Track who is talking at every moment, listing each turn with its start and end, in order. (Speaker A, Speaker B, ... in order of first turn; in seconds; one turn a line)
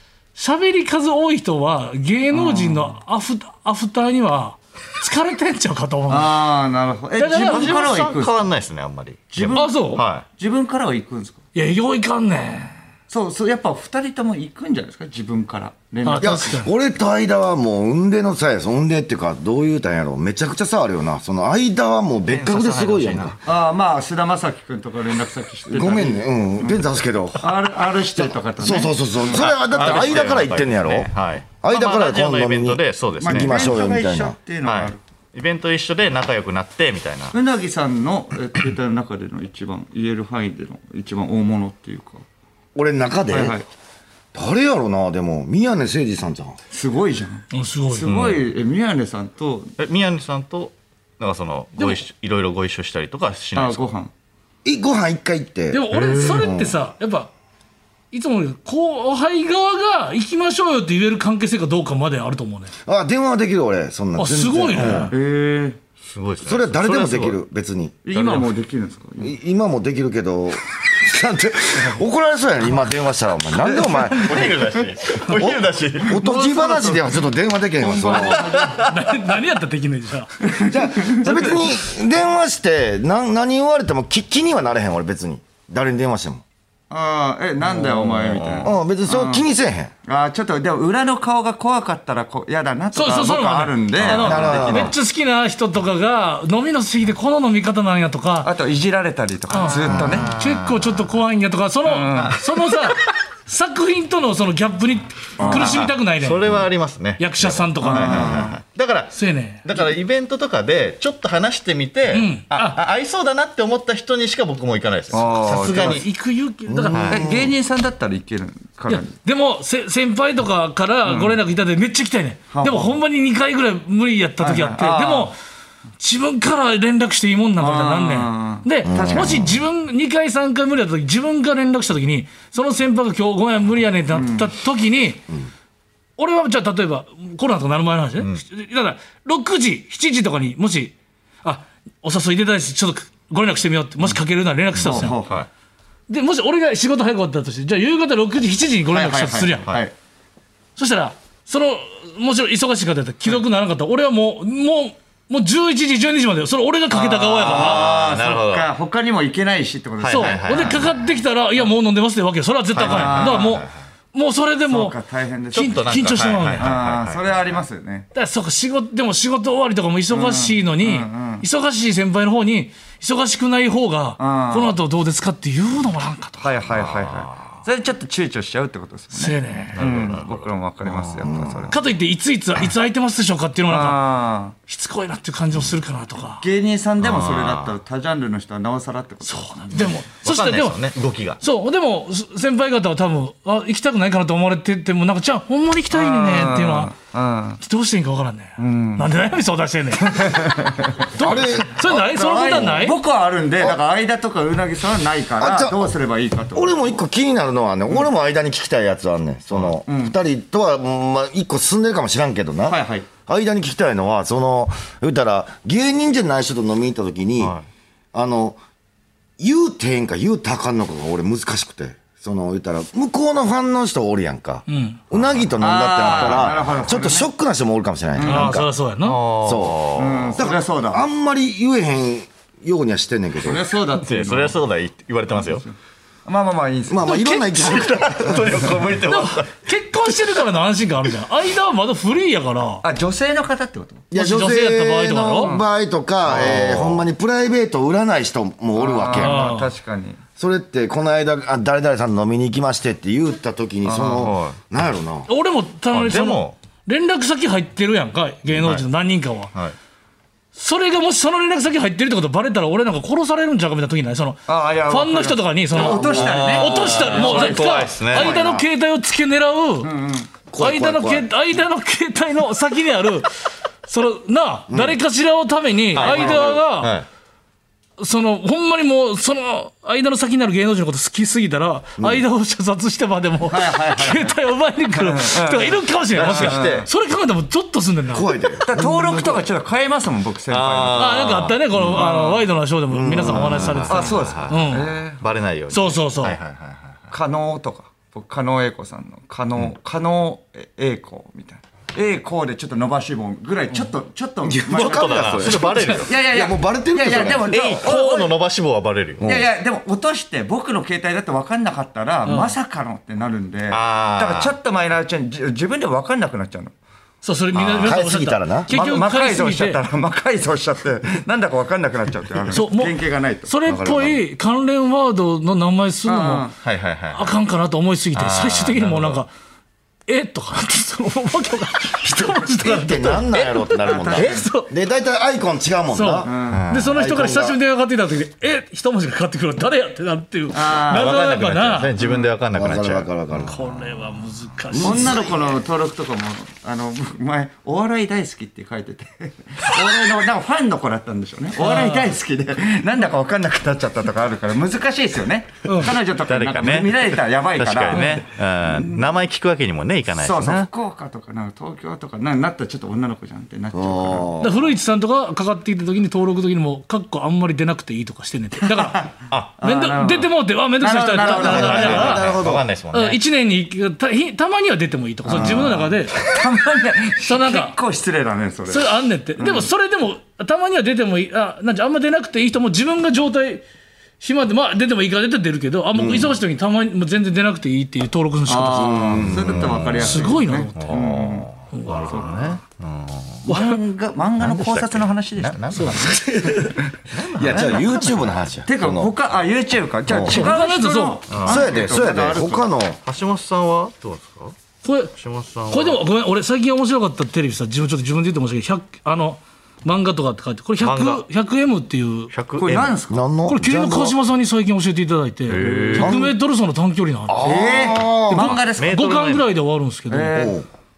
Speaker A: 0.4-6.4
Speaker B: 2.3-3.0
Speaker B: 6.1-8.4
Speaker A: 7.2-7.8
Speaker C: 7.4-10.2
Speaker B: 9.3-11.4
Speaker A: 9.5-10.0
Speaker A: 11.6-12.8
Speaker B: 13.1-16.5
Speaker A: 16.1-16.7
Speaker D: 16.2-23.4
Speaker C: 22.3-23.4
Speaker B: 23.4-26.8
Speaker D: 25.7-27.5
Speaker B: 27.4-30.5
Speaker D: 28.2-34.4
Speaker C: 29.4-33.7
Speaker B: 33.2-35.0
Speaker C: 34.6-37.4
Speaker B: 37.3-42.2
Speaker D: 42.8-43.6
Speaker B: 43.3-43.7
Speaker D: 44.3-46.6
Speaker B: 46.7-49.8
Speaker A: 47.5-48.1
Speaker C: 48.1-48.5
Speaker C: 49.8-53.8
Speaker A: 51.8-52.0
Speaker B: 53.5-54.1
Speaker D: 54.6-56.8
Speaker A: 55.7-57.3
Speaker C: 55.9-56.5
Speaker A: 58.1-62.7
Speaker D: 62.9-65.1
Speaker A: 64.2-65.1
Speaker C: 64.8-65.1
Speaker B: 65.1-65.8
Speaker C: 66.1-67.4
Speaker D: 66.4-68.0
Speaker B: 68.0-69.3
Speaker C: 68.1-68.5
Speaker D: 69.2-74.5
Speaker B: 73.6-75.2
Speaker C: 74.2-76.2
Speaker D: 75.3-78.5
Speaker B: 76.0-77.2
Speaker B: 77.8-78.8
Speaker C: 78.1-79.0
Speaker A: 78.6-80.3
Speaker B: 80.5-81.6
Speaker D: 80.7-86.4
Speaker B: 86.9-89.5
Speaker C: 87.9-88.7
Speaker D: 88.6-89.9
Speaker B: 90.0-95.0
Speaker A: 92.9-98.5
Speaker C: 94.0-94.5
Speaker D: 94.1-95.0
Speaker B: 98.4-100.3
Speaker A: 99.5-106.6
Speaker C: 99.8-101.1
Speaker B: 101.8-102.4
Speaker C: 102.1-102.4
Speaker B: 105.4-105.9
Speaker C: 105.4-116.1
Speaker A: 107.2-108.5
Speaker B: 107.8-108.6
Speaker A: 109.1-109.7
Speaker A: 112.1-112.8
Speaker B: 115.1-116.0
Speaker A: 115.8-117.1
Speaker D: 116.7-117.5
Speaker C: 116.9-117.3
Speaker B: 117.1-119.1
Speaker A: 118.9-125.4
Speaker B: 121.0-121.4
Speaker B: 122.5-123.0
Speaker B: 124.4-125.3
Speaker A: 126.0-135.3
Speaker B: 127.6-129.6
Speaker D: 128.8-129.6
Speaker B: 134.1-134.5
Speaker A: 136.2-145.2
Speaker C: 144.7-145.5
Speaker B: 144.8-145.4
Speaker A: 146.1-149.7
Speaker B: 148.9-149.9
Speaker A: 150.8-157.9
Speaker B: 156.9-160.8
Speaker C: 157.5-158.7
Speaker C: 160.0-161.1
Speaker A: 160.1-164.9
Speaker C: 162.7-163.7
Speaker B: 162.8-163.6
Speaker B: 164.7-165.9
Speaker C: 165.5-167.6
Speaker A: 165.5-166.7
Speaker B: 166.6-168.1
Speaker A: 168.1-176.5
Speaker B: 170.1-171.4
Speaker B: 174.2-174.8
Speaker B: 176.4-181.8
Speaker C: 176.6-177.5
Speaker A: 179.1-179.8
Speaker C: 179.8-181.6
Speaker D: 181.2-181.7
Speaker A: 181.7-184.0
Speaker B: 183.7-184.6
Speaker A: 184.7-186.4
Speaker B: 186.4-189.9
Speaker C: 187.0-187.8
Speaker A: 189.2-190.9
Speaker C: 190.2-191.4
Speaker A: 191.4-196.9
Speaker B: 195.9-197.6
Speaker A: 197.6-203.0
Speaker B: 198.6-199.1
Speaker B: 200.0-201.1
Speaker D: 201.2-202.0
Speaker B: 201.8-206.8
Speaker D: 205.4-205.9
Speaker D: 206.6-217.6
Speaker C: 209.5-209.8
Speaker B: 209.9-210.2
Speaker B: 212.7-213.1
Speaker C: 217.4-217.7
Speaker D: 218.1-218.6
Speaker D: 219.4-228.7
Speaker A: 224.7-225.0
Speaker C: 225.1-225.4
Speaker B: 225.6-227.3
Speaker C: 226.2-226.5
Speaker B: 228.2-228.6
Speaker A: 228.2-229.2
Speaker C: 229.0-230.4
Speaker D: 229.4-233.6
Speaker B: 229.9-231.0
Speaker B: 233.4-234.6
Speaker C: 234.0-235.6
Speaker B: 235.3-237.2
Speaker D: 236.9-238.6
Speaker A: 237.1-237.8
Speaker C: 237.6-239.5
Speaker A: 239.1-242.8
Speaker B: 242.8-244.1
Speaker D: 244.1-249.5
Speaker A: 244.1-245.5
Speaker B: 245.4-245.7
Speaker C: 246.2-247.0
Speaker B: 248.8-250.2
Speaker A: 249.1-249.7
Speaker D: 250.4-255.3
Speaker B: 253.8-254.3
Speaker C: 254.2-254.6
Speaker A: 255.3-259.5
Speaker C: 255.9-256.6
Speaker C: 258.5-258.9
Speaker A: 260.5-269.9
Speaker B: 264.5-268.6
Speaker D: 265.7-266.5
Speaker C: 266.1-268.4
Speaker B: 269.8-270.3
Speaker D: 270.5-271.3
Speaker A: 270.6-277.0
Speaker D: 274.7-275.0
Speaker C: 275.9-277.1
Speaker B: 276.0-276.4
Speaker D: 276.0-276.5
Speaker A: 278.0-288.3
Speaker D: 282.0-282.2
Speaker B: 283.5-284.3
Speaker B: 284.9-286.9
Speaker C: 286.1-286.9
Speaker D: 288.1-289.4
Speaker B: 288.6-292.4
Speaker C: 290.5-292.2
Speaker A: 290.9-294.9
Speaker D: 292.9-293.9
Speaker C: 293.2-297.1
Speaker B: 293.9-295.2
Speaker A: 295.7-296.4
Speaker B: 297.1-308.4
Speaker D: 304.4-307.6
Speaker C: 304.7-306.1
Speaker C: 307.4-309.3
Speaker D: 309.2-309.5
Speaker B: 309.2-316.7
Speaker A: 312.2-312.5
Speaker C: 313.7-314.5
Speaker A: 317.2-319.8
Speaker C: 317.6-317.9
Speaker D: 317.8-318.7
Speaker B: 318.7-324.2
Speaker A: 322.5-322.9
Speaker A: 323.5-326.5
Speaker B: 326.1-326.6
Speaker C: 326.6-327.4
Speaker A: 327.1-329.3
Speaker C: 328.1-329.2
Speaker A: 330.1-334.7
Speaker D: 332.5-336.3
Speaker B: 333.8-334.5
Speaker A: 335.9-341.9
Speaker B: 336.2-336.6
Speaker C: 336.5-337.0
Speaker D: 336.9-337.6
Speaker B: 340.5-341.2
Speaker C: 340.9-343.1
Speaker B: 342.0-342.3
Speaker D: 342.5-343.6
Speaker A: 343.4-345.2
Speaker D: 344.7-345.5
Speaker B: 344.8-359.1
Speaker A: 351.6-352.1
Speaker A: 355.6-355.9
Speaker C: 356.3-356.9
Speaker C: 357.6-360.7
Speaker A: 357.9-358.2
Speaker B: 360.1-364.3
Speaker D: 363.7-364.6
Speaker A: 364.4-372.3
Speaker B: 368.7-372.4
Speaker C: 369.3-369.6
Speaker D: 371.3-372.7
Speaker C: 371.5-373.2
Speaker A: 372.9-376.3
Speaker C: 375.3-375.8
Speaker B: 375.4-379.7
Speaker A: 377.2-377.8
Speaker A: 378.7-383.6
Speaker A: 384.2-389.0
Speaker D: 386.0-386.3
Speaker B: 388.5-392.6
Speaker D: 388.7-389.9
Speaker C: 389.2-393.5
Speaker A: 390.0-391.0
Speaker A: 391.7-392.3
Speaker B: 393.4-396.0
Speaker A: 393.5-393.8
Speaker C: 394.4-396.1
Speaker A: 395.7-396.7
Speaker D: 396.0-396.8
Speaker C: 397.1-398.4
Speaker D: 397.4-399.1
Speaker B: 398.7-402.7
Speaker D: 400.1-400.5
Speaker A: 400.3-401.3
Speaker C: 401.3-401.7
Speaker D: 401.4-403.0
Speaker C: 403.0-404.6
Speaker A: 404.8-405.1
Speaker C: 405.1-406.0
Speaker A: 405.7-412.3
Speaker C: 410.8-411.3
Speaker C: 412.3-413.0
Speaker B: 412.6-413.2
Speaker D: 413.1-414.2
Speaker A: 413.5-417.4
Speaker C: 415.5-416.2
Speaker B: 415.5-416.2
Speaker D: 415.9-416.4
Speaker C: 417.3-417.6
Speaker D: 417.3-418.6
Speaker B: 417.4-419.2
Speaker C: 418.4-419.5
Speaker A: 418.8-420.5
Speaker B: 420.1-420.6
Speaker D: 420.3-420.7